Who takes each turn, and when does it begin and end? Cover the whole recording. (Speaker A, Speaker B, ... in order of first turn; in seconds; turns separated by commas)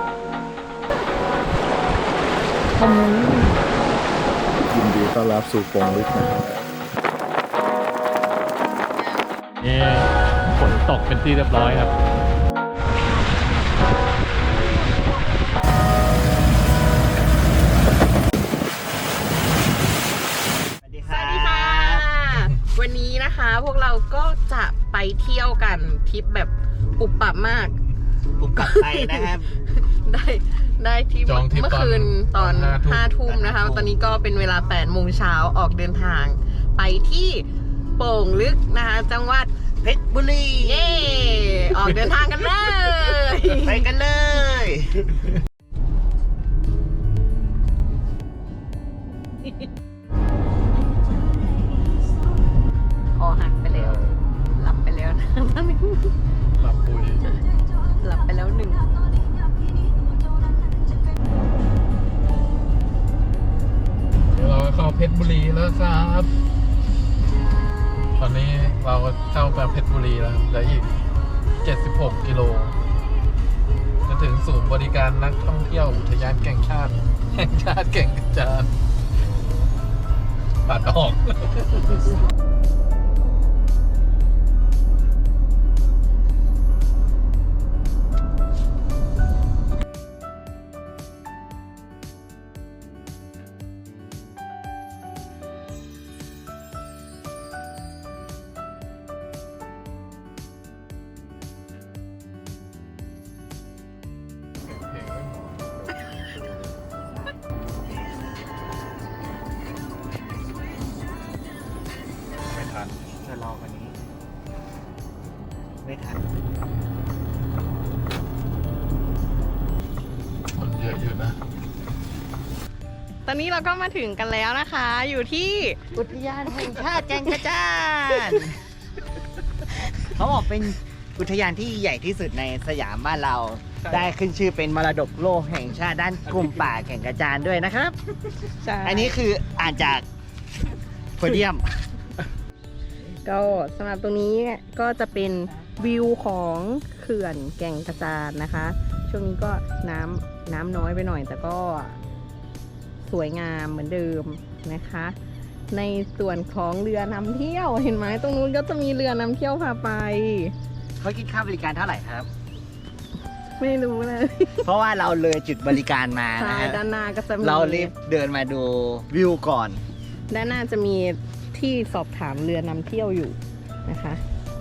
Speaker A: 2.8-3.4, Speaker B: 4.7-6.6, Speaker C: 9.6-11.9, Speaker D: 20.8-22.1, Speaker A: 21.1-27.8, Speaker D: 28.4-29.5, Speaker A: 28.6-29.2, Speaker A: 29.9-37.5, Speaker C: 31.3-33.0, Speaker D: 33.3-34.0, Speaker A: 38.0-39.5, Speaker D: 39.8-41.7, Speaker A: 40.6-43.8, Speaker D: 43.5-45.1, Speaker A: 53.2-54.0, Speaker C: 53.7-54.1, Speaker A: 54.6-56.1, Speaker C: 56.6-57.2, Speaker A: 58.0-58.9, Speaker C: 64.3-66.3, Speaker C: 68.2-71.0, Speaker C: 71.6-72.8, Speaker C: 74.1-78.7, Speaker C: 80.7-81.9, Speaker C: 104.6-106.0, Speaker C: 112.5-112.9, Speaker D: 113.2-114.0, Speaker D: 115.8-116.2, Speaker C: 120.5-121.4, Speaker A: 123.3-125.8, Speaker D: 125.9-128.6, Speaker D: 130.0-138.0, Speaker C: 133.8-134.1, Speaker A: 138.6-139.2, Speaker D: 138.8-140.1, Speaker D: 141.2-141.8, Speaker A: 143.2-152.0, Speaker A: 153.0-155.2, Speaker A: 155.7-160.5, Speaker D: 161.0-162.3, Speaker A: 163.6-164.7, Speaker D: 164.6-166.8, Speaker A: 166.4-167.9, Speaker D: 167.4-169.8, Speaker A: 170.3-174.2